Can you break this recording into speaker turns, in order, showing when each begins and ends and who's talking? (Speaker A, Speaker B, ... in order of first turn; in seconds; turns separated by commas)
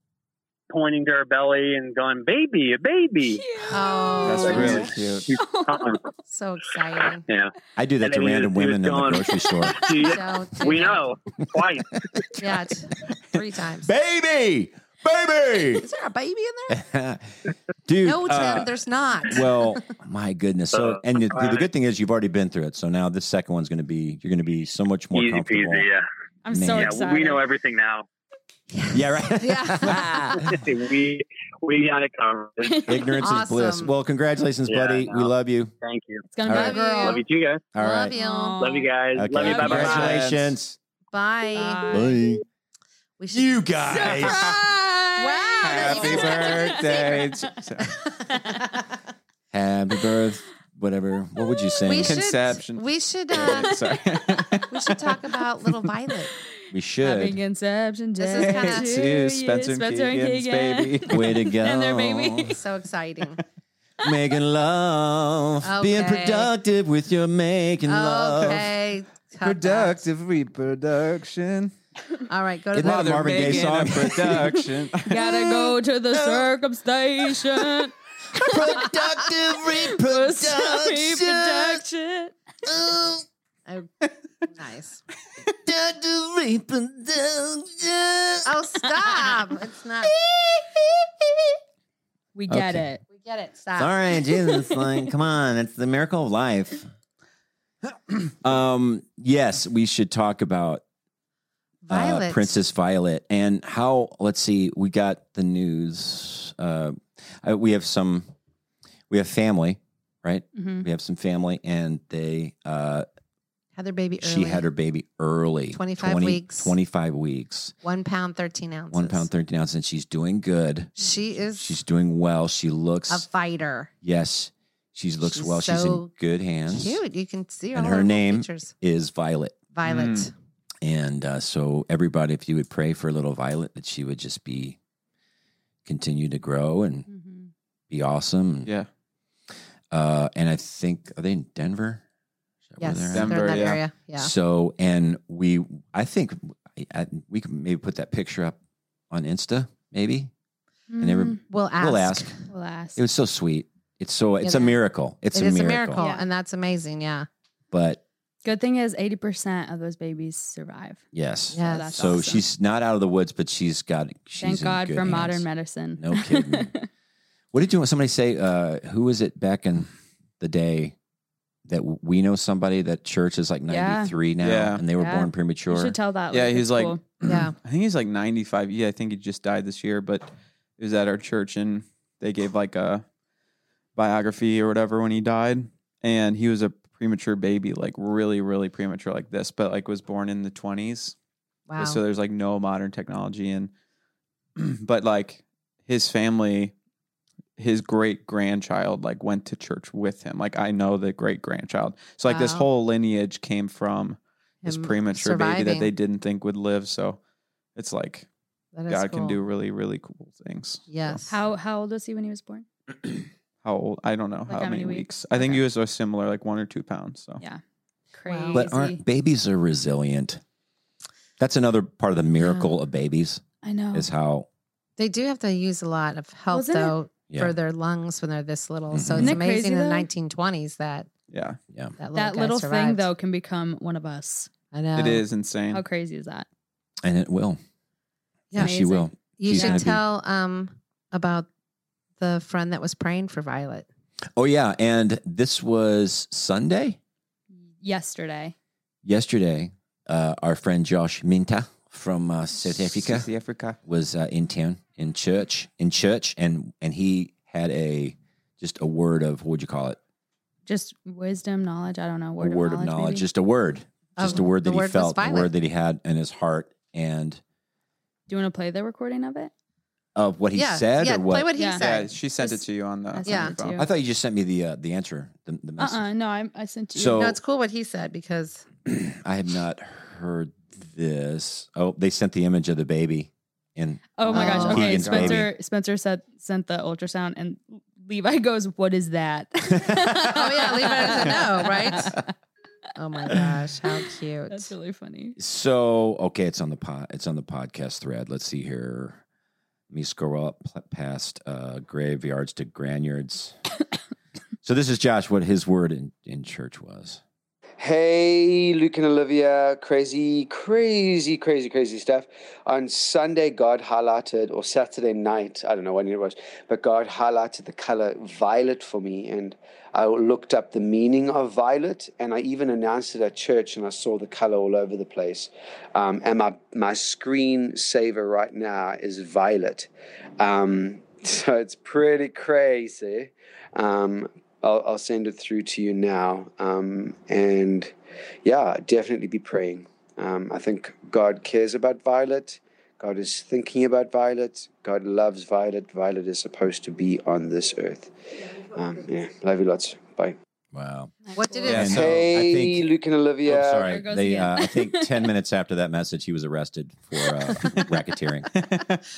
Speaker A: 0.7-3.4, Speaker B: 3.3-5.9, Speaker C: 3.7-4.9, Speaker D: 4.2-5.3, Speaker E: 4.5-4.9, Speaker A: 4.5-6.0, Speaker C: 6.3-7.2, Speaker A: 7.3-11.9, Speaker E: 7.8-10.0, Speaker C: 10.0-11.1, Speaker E: 12.0-12.4, Speaker C: 12.4-13.9, Speaker E: 13.8-15.8, Speaker C: 15.7-16.8, Speaker E: 16.7-17.3, Speaker E: 17.9-25.9, Speaker C: 18.0-19.7, Speaker A: 20.7-21.7, Speaker A: 25.1-26.1, Speaker B: 26.4-27.4, Speaker E: 26.5-27.0, Speaker A: 26.7-28.1, Speaker C: 28.7-30.4, Speaker E: 28.9-30.6, Speaker A: 30.4-33.0, Speaker B: 32.6-33.0, Speaker E: 32.9-35.7, Speaker C: 33.2-33.9, Speaker A: 34.7-36.3, Speaker B: 36.3-37.2, Speaker C: 36.4-37.2, Speaker E: 36.5-36.8, Speaker A: 37.0-37.6, Speaker E: 37.7-38.1, Speaker C: 37.8-38.6, Speaker B: 38.1-40.0, Speaker A: 38.6-40.2, Speaker E: 39.1-40.8, Speaker D: 39.6-40.5, Speaker C: 41.1-42.1, Speaker B: 41.5-42.1, Speaker E: 41.9-42.4, Speaker C: 43.2-44.5, Speaker E: 43.3-45.0, Speaker C: 45.2-47.3, Speaker D: 45.6-47.9, Speaker E: 45.8-46.3, Speaker B: 46.1-47.1, Speaker C: 48.1-48.8, Speaker E: 49.5-52.2, Speaker C: 51.8-53.8, Speaker D: 52.0-55.0, Speaker C: 54.7-56.3, Speaker E: 56.7-57.4, Speaker B: 57.0-62.6, Speaker C: 58.2-58.9, Speaker D: 58.4-61.3, Speaker E: 61.1-62.5, Speaker C: 62.5-63.4, Speaker E: 64.0-68.7, Speaker C: 65.6-66.5, Speaker C: 67.8-70.0, Speaker D: 69.4-71.7, Speaker C: 72.3-73.7, Speaker E: 72.7-74.6, Speaker D: 72.8-75.2, Speaker B: 75.0-78.9, Speaker E: 75.4-76.5, Speaker E: 78.3-81.8, Speaker B: 79.8-82.3, Speaker E: 82.7-83.2, Speaker C: 83.7-85.0, Speaker E: 85.7-88.5, Speaker C: 88.4-90.1, Speaker E: 90.0-91.5, Speaker B: 92.3-93.0, Speaker E: 92.5-92.8, Speaker C: 93.1-94.3, Speaker E: 93.8-96.8, Speaker E: 98.4-100.8, Speaker C: 101.8-102.6, Speaker E: 101.9-108.3, Speaker E: 109.1-113.0, Speaker B: 110.5-110.8, Speaker C: 113.8-114.7, Speaker E: 114.2-117.7, Speaker C: 115.7-116.7, Speaker C: 117.8-119.3, Speaker E: 118.9-123.2, Speaker C: 121.0-121.7, Speaker C: 123.1-123.9, Speaker E: 124.0-127.0, Speaker C: 125.2-126.1, Speaker C: 126.6-128.7, Speaker E: 127.7-129.6, Speaker C: 129.7-130.3, Speaker D: 129.8-130.3, Speaker E: 130.8-134.8, Speaker E: 135.8-137.1, Speaker B: 137.1-137.5, Speaker E: 137.9-138.7, Speaker E: 139.9-142.0, Speaker E: 142.7-148.6, Speaker C: 142.8-144.3, Speaker D: 143.1-143.8, Speaker E: 149.1-150.3, Speaker B: 150.9-151.4, Speaker E: 151.0-152.3, Speaker C: 151.4-152.3, Speaker B: 152.5-153.0, Speaker E: 152.9-156.0, Speaker C: 154.4-154.8, Speaker C: 155.3-157.3, Speaker B: 156.0-156.2, Speaker E: 157.7-158.0, Speaker B: 158.4-161.0, Speaker E: 161.1-166.7, Speaker C: 161.5-162.4, Speaker B: 161.6-162.4, Speaker B: 164.4-166.9, Speaker E: 167.5-169.9, Speaker E: 170.4-170.9, Speaker E: 171.7-176.0, Speaker B: 173.7-174.1, Speaker D: 174.4-174.8, Speaker B: 175.0-177.0, Speaker D: 176.3-180.3, Speaker C: 177.2-177.5, Speaker D: 180.8-183.0, Speaker D: 183.9-191.1, Speaker C: 191.7-192.0, Speaker D: 191.8-193.7, Speaker D: 194.6-196.7, Speaker D: 197.6-207.2, Speaker C: 202.3-202.7, Speaker C: 204.6-205.9, Speaker D: 207.8-208.3, Speaker C: 208.7-209.4, Speaker D: 208.9-211.2, Speaker C: 210.9-211.3, Speaker B: 211.3-212.7, Speaker D: 213.6-217.4, Speaker B: 214.5-215.6, Speaker B: 218.1-219.0, Speaker C: 218.3-218.7, Speaker E: 218.5-220.4, Speaker E: 221.4-223.4, Speaker C: 222.4-222.7, Speaker B: 223.6-224.1, Speaker E: 223.9-224.5, Speaker C: 225.0-231.1, Speaker B: 226.5-226.9, Speaker E: 227.3-227.5, Speaker E: 228.9-229.4, Speaker B: 229.2-230.1, Speaker D: 231.3-231.6, Speaker C: 232.0-233.1, Speaker B: 232.1-234.5, Speaker C: 234.7-235.2, Speaker D: 234.9-235.8, Speaker B: 235.7-236.5, Speaker E: 237.0-237.6, Speaker C: 238.5-241.5, Speaker E: 238.5-240.0, Speaker B: 238.6-239.8, Speaker C: 242.2-243.9, Speaker E: 244.3-247.0, Speaker B: 247.8-248.5, Speaker E: 249.0-253.3, Speaker D: 252.8-253.8, Speaker E: 253.8-260.0, Speaker B: 260.6-263.2, Speaker E: 262.4-267.4, Speaker C: 264.2-265.5, Speaker B: 268.3-269.5, Speaker E: 270.1-271.5, Speaker C: 270.5-272.1, Speaker B: 271.5-273.9, Speaker D: 271.8-273.8, Speaker C: 273.2-273.6, Speaker E: 273.7-276.0, Speaker B: 275.8-277.3, Speaker E: 276.9-277.4, Speaker C: 277.1-278.6, Speaker E: 278.9-285.5, Speaker B: 284.2-292.2, Speaker C: 284.3-285.2, Speaker D: 284.8-285.3, Speaker E: 289.8-290.2, Speaker C: 290.2-292.2, Speaker C: 293.0-294.7, Speaker B: 294.5-295.4, Speaker E: 295.4-299.2, Speaker E: 299.9-303.5, Speaker E: 304.6-307.2, Speaker F: 307.8-348.1, Speaker F: 348.7-350.4, Speaker E: 350.7-352.8, Speaker B: 351.2-351.8, Speaker C: 351.3-351.8, Speaker D: 351.6-352.3, Speaker F: 351.7-354.0, Speaker E: 353.4-358.5, Speaker B: 353.8-355.3, Speaker D: 358.5-359.0